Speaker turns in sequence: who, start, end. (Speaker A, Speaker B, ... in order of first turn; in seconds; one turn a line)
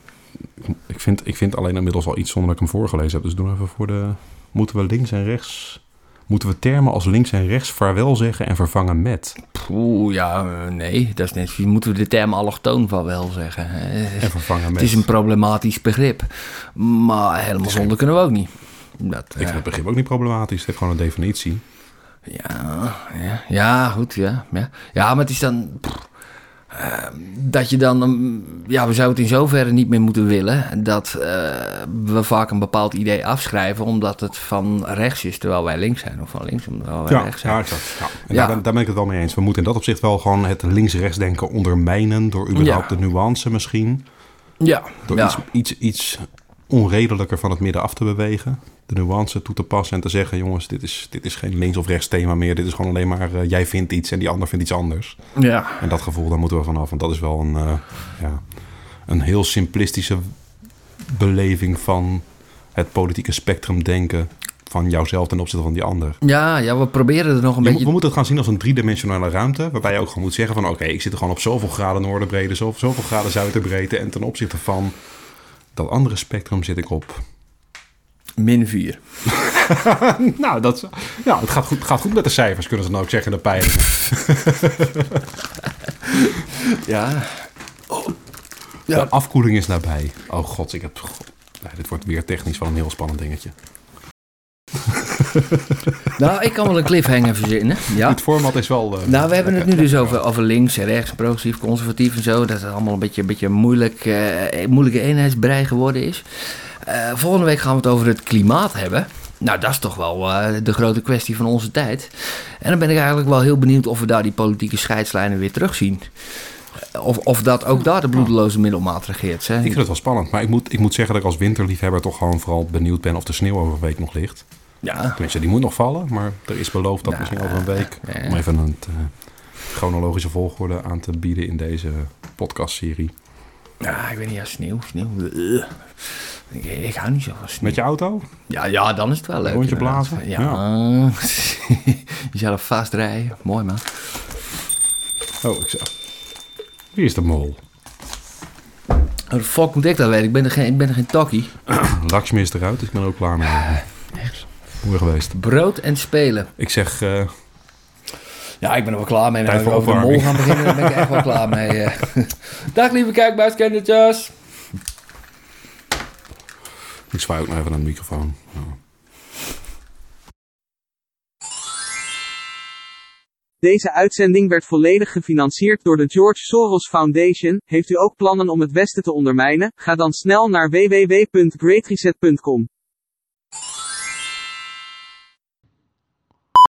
Speaker A: 0.6-9.4
Speaker B: 9.5-19.7
Speaker A: 14.2-15.1
Speaker A: 17.6-17.9
Speaker A: 19.4-21.6
Speaker B: 22.3-26.1
Speaker B: 26.7-38.6
Speaker A: 37.1-44.0
Speaker B: 42.5-42.9
Speaker B: 44.6-45.4
Speaker A: 45.1-55.2
Speaker B: 55.4-55.8
Speaker A: 55.8-58.4
Speaker A: 59.0-60.3
Speaker A: 61.0-66.2
Speaker B: 66.2-67.9
Speaker A: 67.6-75.0
Speaker A: 75.7-77.2
Speaker B: 78.4-79.0
Speaker A: 79.3-85.3
Speaker B: 86.0-88.1
Speaker A: 88.9-93.5
Speaker A: 94.9-95.5
Speaker B: 96.1-98.2
Speaker A: 97.9-100.2
Speaker B: 99.0-116.1
Speaker B: 116.8-119.8
Speaker A: 119.6-124.4
Speaker B: 124.8-125.2
Speaker A: 125.2-129.1
Speaker B: 127.0-128.4
Speaker A: 129.7-133.1
Speaker B: 133.8-137.8
Speaker A: 137.6-138.3
Speaker B: 138.5-144.0
Speaker A: 139.4-140.6
Speaker A: 145.4-145.9
Speaker A: 146.9-147.6
Speaker B: 149.3-151.6
Speaker A: 151.7-153.8
Speaker A: 154.8-155.4
Speaker B: 155.3-156.5
Speaker A: 156.6-157.3
Speaker B: 158.6-164.3
Speaker A: 159.4-161.6
Speaker A: 167.1-168.8
Speaker C: 173.6-182.7